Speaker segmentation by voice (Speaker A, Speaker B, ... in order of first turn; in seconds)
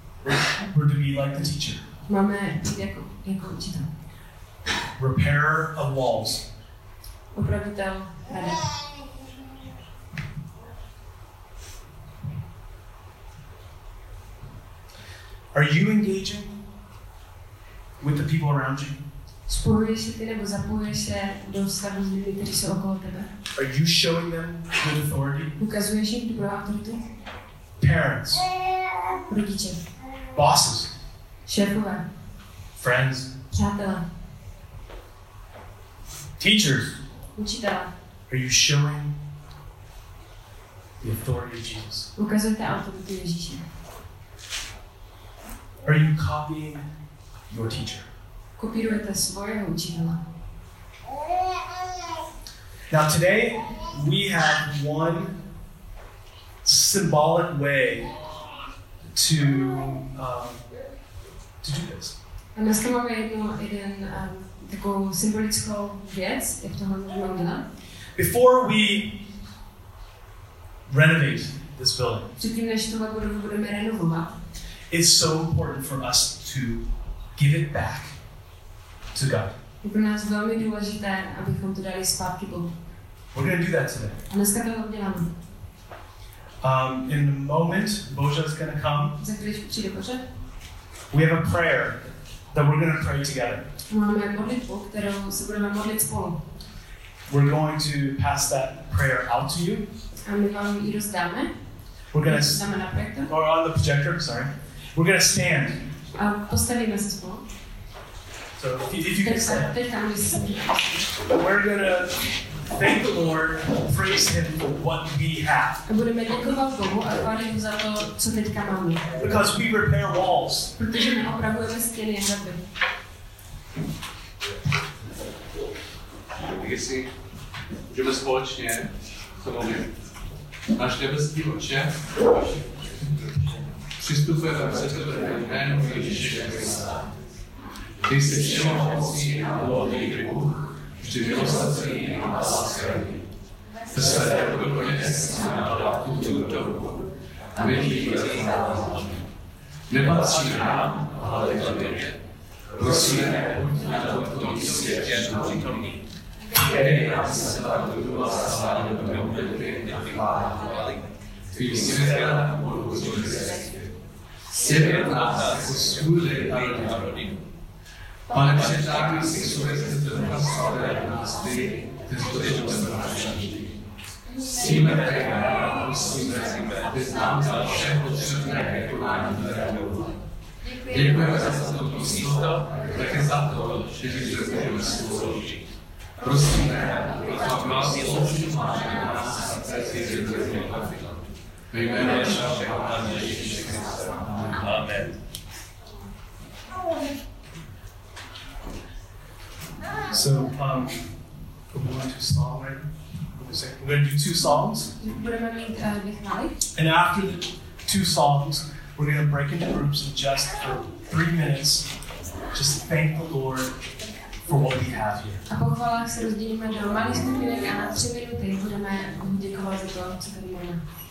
Speaker A: 0.2-1.8, 5.0-6.5, 15.5-16.6, 18.0-18.9, 23.6-25.5, 27.8-28.5, 30.4-30.9, 32.8-33.3, 36.4-37.0, 38.3-39.1, 41.0-42.1, 45.9-46.8, 47.5-48.1, 52.9-55.4, 56.6-58.1, 59.1-60.6, 61.6-62.1, 68.2-69.3, 70.9-72.3, 74.9-76.8, 77.4-78.1, 79.1-79.5, 83.3-84.2, 86.6-89.2, 91.1-92.0, 92.5-93.7, 97.3-99.9, 102.1-102.6, 103.3-105.8, 108.6-109.7, 111.3-115.8, 119.2-120.7, 200.1-201.1, 201.7-202.9, 203.4-204.9, 206.8-211.9, 212.5-213.8, 214.5-215.4
Speaker B: 2.1-3.9, 7.3-8.9, 19.5-23.3, 25.6-27.1, 29.3-29.9, 31.4-32.0, 33.5-34.1, 37.4-37.9, 42.2-43.6, 48.6-50.2, 62.6-67.7, 72.4-74.3, 79.8-82.7, 84.3-85.3, 89.2-90.2, 93.9-96.4, 100.2-101.5, 102.2-103.3, 106.2-107.5, 109.2-111.2, 115.9-119.1, 120.8-122.6, 205.0-206.6, 215.5-220.8
Speaker C: 126.4-127.1, 127.9-128.9, 129.4-129.9, 130.7-132.7, 134.0-136.9, 138.0-143.2, 143.9-146.9, 147.6-149.1, 149.9-152.1, 152.8-156.0, 156.5-161.0, 161.5-163.8, 164.5-167.4, 168.3-173.8, 174.4-180.1, 180.9-185.6, 186.2-191.1, 191.7-195.1